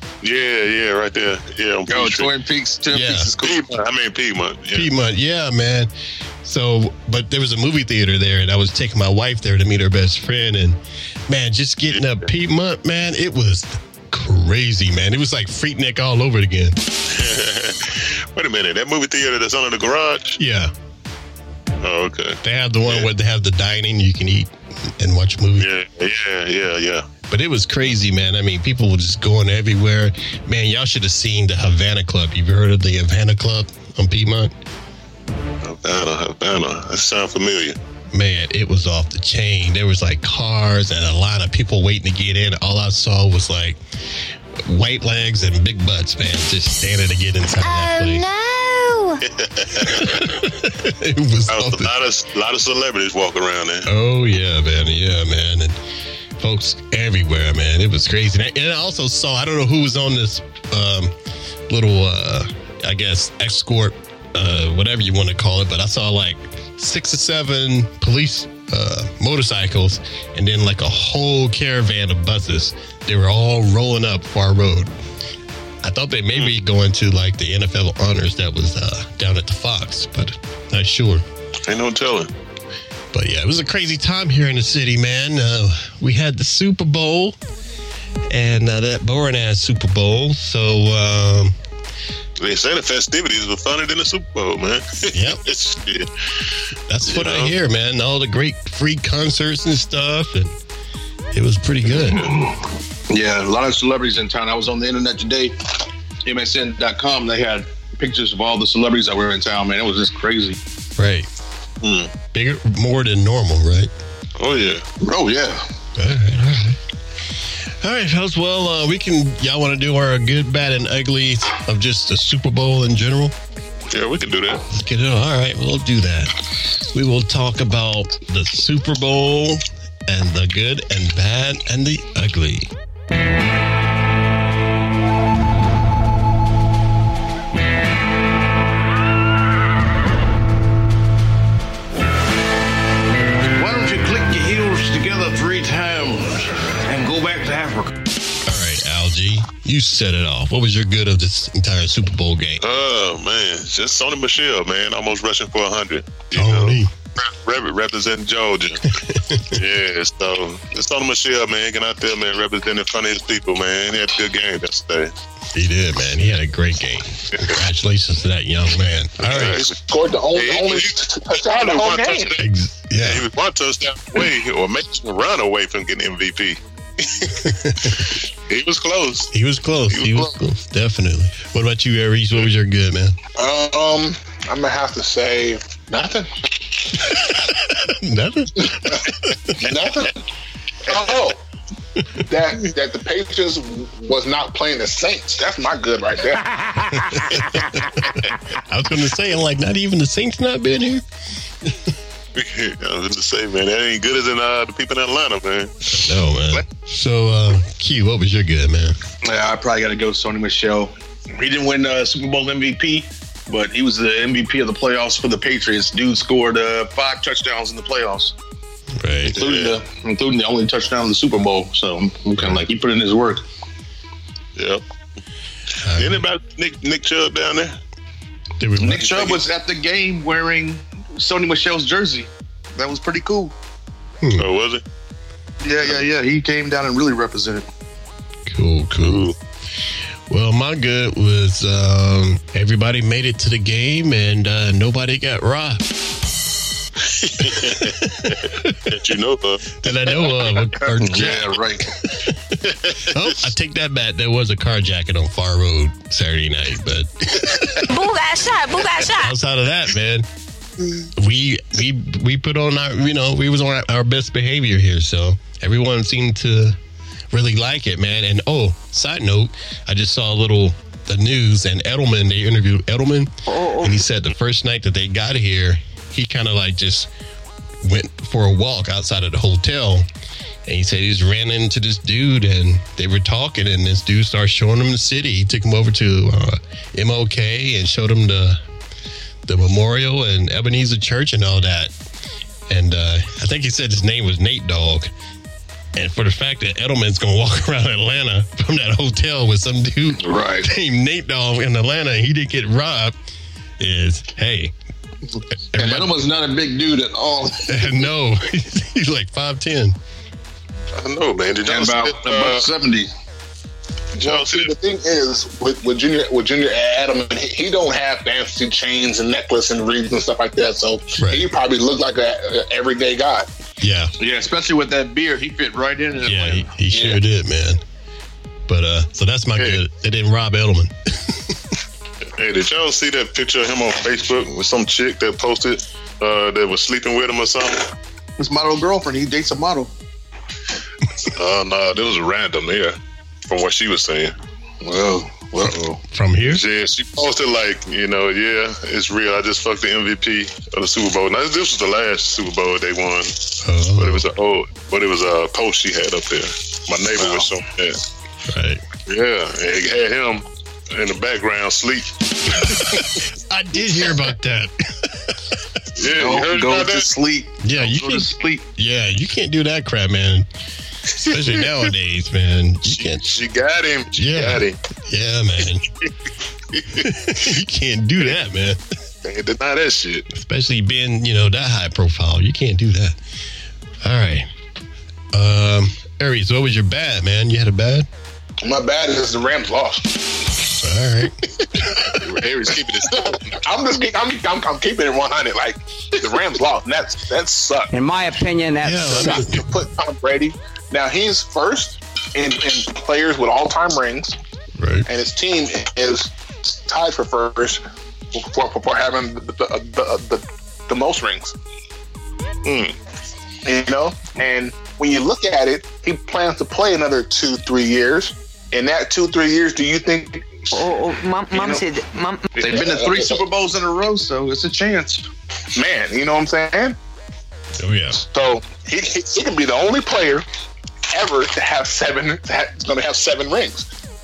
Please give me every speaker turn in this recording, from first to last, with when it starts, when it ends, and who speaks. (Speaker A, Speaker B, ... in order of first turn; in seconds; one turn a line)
Speaker A: 0.2-2.3
Speaker B: 1.9-3.7
Speaker C: 2.9-3.3
Speaker A: 3.4-4.9
Speaker C: 4.7-5.9
Speaker C: 6.4-16.8
Speaker A: 11.9-12.3
Speaker A: 17.1-20.4
Speaker C: 20.4-20.7
Speaker A: 21.8-23.1
Speaker C: 22.4-25.7
Speaker A: 25.6-27.1
Speaker C: 27.3-34.5
Speaker A: 35.6-37.8
Speaker C: 38.1-43.8
Speaker C: 44.6-48.3
Speaker D: 47.6-49.2
Speaker A: 49.2-50.2
Speaker C: 49.8-51.9
Speaker A: 51.5-53.9
Speaker C: 53.9-55.8
Speaker C: 56.4-61.1
Speaker C: 61.7-74.9
Speaker C: 75.8-81.2
Speaker A: 81.7-82.3
Speaker C: 83.1-87.4
Speaker C: 88.3-91.5
Speaker A: 92.4-96.1
Speaker C: 95.1-95.4
Speaker C: 96.9-100.5
Speaker A: 97.0-97.5
Speaker C: 101.3-102.3
Speaker A: 102.0-102.4
Speaker B: 103.1-105.6
Speaker B: 106.2-110.6
Speaker C: 111.0-111.3
Speaker A: 111.8-112.1
Speaker C: 112.3-113.9
Speaker A: 114.4-114.8
Speaker B: 115.0-115.7
Speaker C: 116.0-116.8
Speaker C: 117.8-123.3
Speaker A: 123.9-124.7
Speaker C: 124.7-126.3
Speaker C: 126.9-132.7
Speaker E: 143.5-147.9
Speaker C: 148.4-152.6
Speaker A: 152.6-158.9
Speaker C: 156.3-156.9
Speaker C: 159.0-159.6
Speaker A: 159.5-165.1
Speaker C: 165.5-169.7
Speaker A: 169.2-169.8
Speaker F: 169.5-172.4
Speaker A: 170.3-179.3
Speaker C: 172.4-173.3
Speaker C: 177.4-178.1
Speaker C: 179.3-183.2
Speaker A: 179.9-180.3
Speaker F: 183.3-187.2
Speaker C: 187.0-189.7
Speaker F: 188.6-190.2
Speaker F: 190.8-191.4
Speaker F: 192.2-197.3
Speaker C: 196.9-197.8
Speaker C: 198.6-201.1
Speaker A: 202.3-205.8
Speaker C: 205.9-209.0
Speaker B: 209.2-218.3
Speaker C: 219.0-219.4
Speaker A: 219.3-219.8
Speaker B: 219.3-223.4
Speaker C: 222.4-222.6
Speaker A: 224.6-224.8
Speaker C: 225.8-226.2
Speaker A: 226.0-227.8
Speaker C: 228.6-229.4
Speaker B: 228.8-233.6
Speaker C: 234.2-234.5
Speaker A: 234.3-234.8
Speaker B: 235.6-237.7
Speaker C: 238.5-239.3
Speaker A: 239.0-239.4
Speaker C: 240.3-245.9
Speaker A: 247.1-250.6
Speaker C: 247.4-248.9
Speaker C: 249.8-257.9
Speaker B: 251.0-251.9
Speaker A: 252.6-253.3
Speaker D: 257.9-259.4
Speaker C: 259.0-260.3
Speaker C: 261.1-266.8
Speaker C: 267.3-277.1
Speaker D: 273.5-274.0
Speaker C: 277.8-280.1
Speaker C: 280.7-288.6
Speaker C: 289.5-291.9
Speaker C: 292.7-295.1
Speaker C: 295.9-303.1
Speaker B: 300.2-300.7
Speaker C: 303.8-304.7
Speaker C: 305.7-306.2
Speaker B: 305.8-308.0
Speaker C: 307.7-310.0
Speaker A: 310.9-312.7
Speaker B: 311.6-313.1
Speaker F: 314.1-323.5
Speaker A: 314.2-314.7
Speaker C: 321.2-321.5
Speaker C: 323.8-324.1
Speaker B: 324.2-327.1
Speaker C: 326.2-327.8
Speaker C: 328.7-331.6
Speaker A: 332.4-337.9
Speaker B: 338.4-339.9
Speaker A: 341.2-343.0
Speaker A: 343.5-344.3
Speaker B: 344.8-346.0
Speaker C: 346.1-346.6
Speaker A: 346.4-358.0
Speaker C: 353.6-354.2
Speaker C: 358.5-358.8
Speaker A: 359.1-363.2
Speaker C: 362.6-365.4
Speaker A: 366.0-367.1
Speaker B: 366.2-368.6
Speaker C: 367.6-370.5
Speaker C: 371.2-373.4
Speaker A: 371.4-371.6
Speaker A: 372.9-374.8
Speaker C: 374.1-375.9
Speaker A: 376.7-377.1
Speaker C: 376.9-378.8
Speaker A: 379.2-380.3
Speaker C: 380.3-383.2
Speaker C: 384.0-384.5
Speaker C: 385.3-388.1
Speaker F: 388.6-390.6
Speaker C: 390.7-392.2
Speaker B: 392.4-392.8
Speaker F: 392.6-397.9
Speaker E: 397.9-399.4
Speaker C: 398.8-399.8
Speaker F: 399.1-404.4
Speaker C: 404.8-405.1
Speaker F: 405.1-407.8
Speaker F: 408.3-411.5
Speaker A: 412.7-412.9
Speaker F: 413.6-420.8
Speaker D: 420.7-422.6
Speaker F: 421.5-421.8
Speaker B: 422.6-425.3
Speaker F: 422.6-423.4
Speaker F: 425.8-427.0
Speaker C: 427.8-428.2
Speaker F: 428.2-430.4
Speaker F: 431.1-433.9